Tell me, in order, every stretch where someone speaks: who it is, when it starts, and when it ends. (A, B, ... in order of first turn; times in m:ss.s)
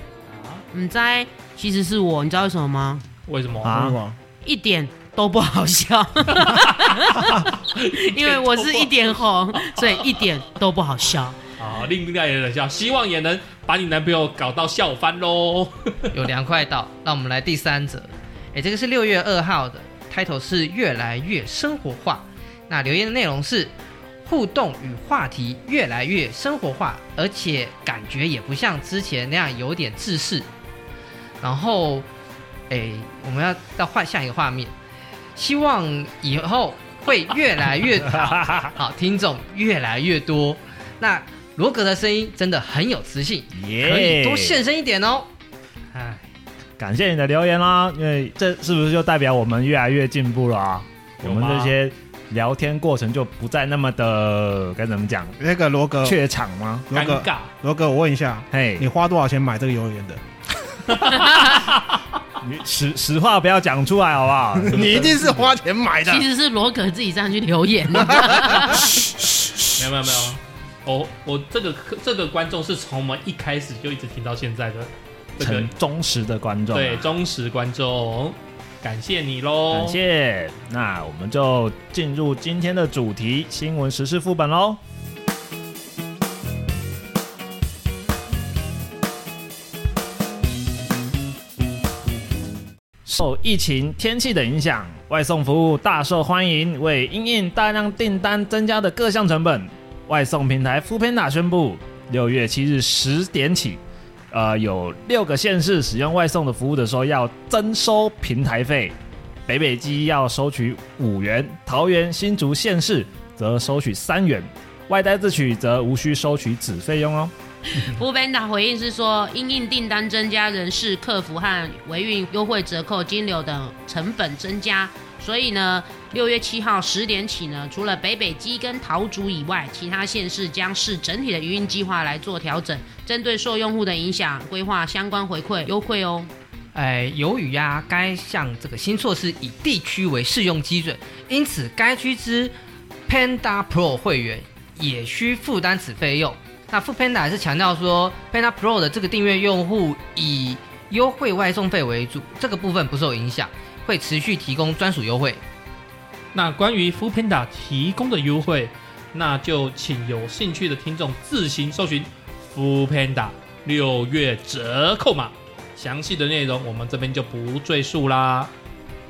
0:00.2-0:00.6 A
0:00.7-0:03.0 B
0:03.2-0:03.7 A
0:03.6-0:04.0 C
0:03.6-0:04.2 D
0:04.4-0:11.4 B
0:06.4-0:10.3 A
0:11.6-0:16.1 A
0:16.1-0:30.5 E
0:31.4-0:32.1 E
0:32.7-0:34.7 E
0:35.3-0:45.3 E
0:38.2-0:38.7 C
0:43.5-0:44.6 C
0:45.9-0:46.3 A
0:46.8-0:55.4 C
0:51.2-0:51.7 A
0:55.4-0:56.2 D
0:56.0-0:56.9 C
0:56.9-1:00.2 D
0:56.9-0:57.5 A
0:58.5-0:58.9 C
1:00.9-1:02.0 A
1:02.4-1:05.5 C
1:04.6-1:06.2 D
1:06.0-1:09.0 B
1:08.1-1:08.8 D
1:09.4-1:09.7 D
1:09.7-1:15.7 A
1:15.4-1:17.1 C
1:16.7-1:20.0 A
1:19.7-1:24.8 C
1:33.0-1:49.0 C
1:49.5-1:57.3 C
1:57.7-2:16.3 B
2:16.7-2:22.5 E
2:23.1-2:35.4 E
2:36.3-2:48.5 A